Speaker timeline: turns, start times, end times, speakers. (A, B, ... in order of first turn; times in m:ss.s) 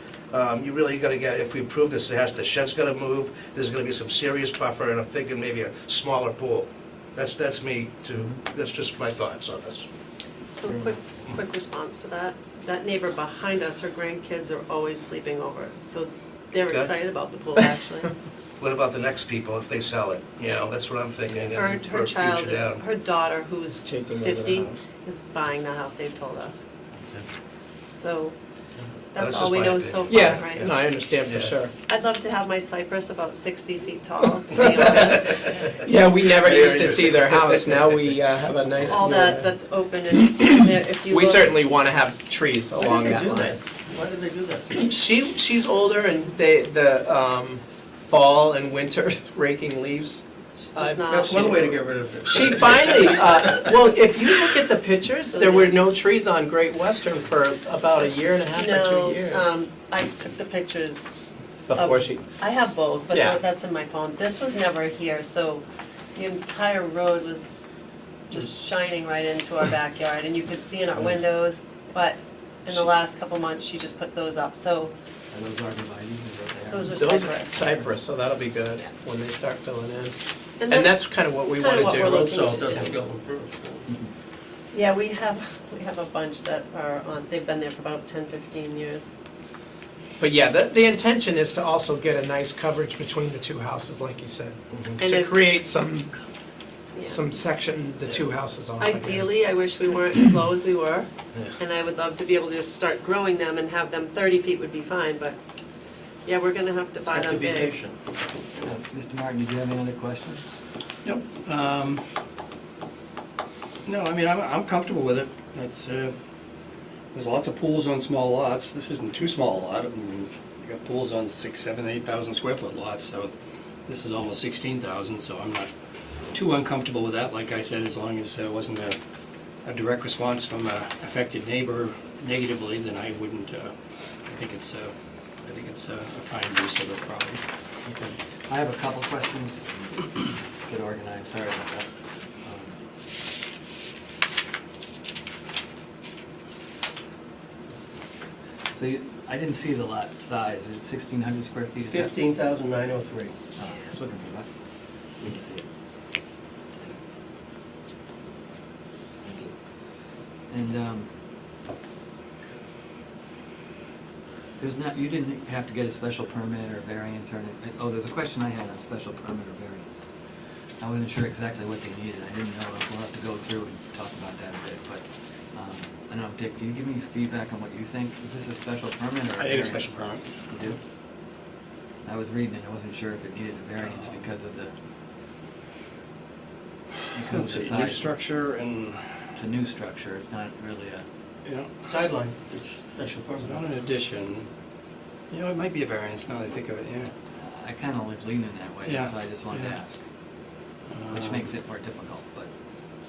0:00.3-0:09.9 A
0:10.5-0:18.1 B
0:18.6-0:22.8 A
0:21.6-0:26.6 B
0:23.8-0:24.9 C
0:26.9-0:27.2 A
0:27.8-0:28.4 B
0:29.1-0:30.8 B
0:29.2-0:30.7 A
0:30.1-0:31.7 C
0:31.3-0:31.5 A
0:31.9-0:35.8 B
0:35.8-0:39.5 C
0:36.4-0:37.8 A
0:38.9-0:41.6 B
0:41.1-0:43.6 C
0:42.8-0:44.9 D
0:44.7-0:50.2 C
0:50.6-0:51.7 B
0:50.8-0:59.5 C
0:51.0-0:53.8 D
0:55.3-0:55.8 B
0:57.8-1:05.6 B
1:01.7-1:02.3 C
1:03.1-1:03.4 C
1:06.2-1:07.6 B
1:08.3-1:14.9 B
1:15.3-1:17.1 E
1:16.7-1:17.7 B
1:16.9-1:20.2 C
1:17.6-1:18.0 E
1:20.6-1:22.8 B
1:20.7-1:23.0 C
1:22.1-1:23.8 D
1:23.9-1:24.1 E
1:24.7-1:29.1 B
1:30.2-1:36.1 C
1:34.7-1:35.0 A
1:35.0-1:35.5 B
1:36.9-1:37.2 B
1:37.1-1:39.3 C
1:38.8-1:45.4 B
1:46.2-1:47.8 B
1:47.1-1:48.0 D
1:48.6-1:50.5 E
1:51.0-1:52.0 F
1:53.9-1:56.1 F
1:57.1-2:03.3 F
2:03.9-2:05.7 F
2:06.3-2:09.0 F
2:09.6-2:17.4 F
2:17.8-2:21.9 E
2:22.4-2:22.8 E
2:28.8-2:32.2 E
2:31.8-2:33.3 D
2:33.6-2:35.6 E
2:39.2-2:41.1 E
2:44.6-3:00.8 E
2:59.4-3:00.3 F
3:02.0-3:04.7 E
3:07.1-3:08.1 E
3:07.3-3:09.3 F
3:09.4-3:11.1 E
3:11.4-3:11.7 F
3:11.8-3:13.7 D
3:13.4-3:14.5 F
3:15.3-3:17.1 F
3:17.3-3:20.0 E
3:18.8-3:19.8 F
3:20.9-3:21.5 F
3:21.1-3:22.5 E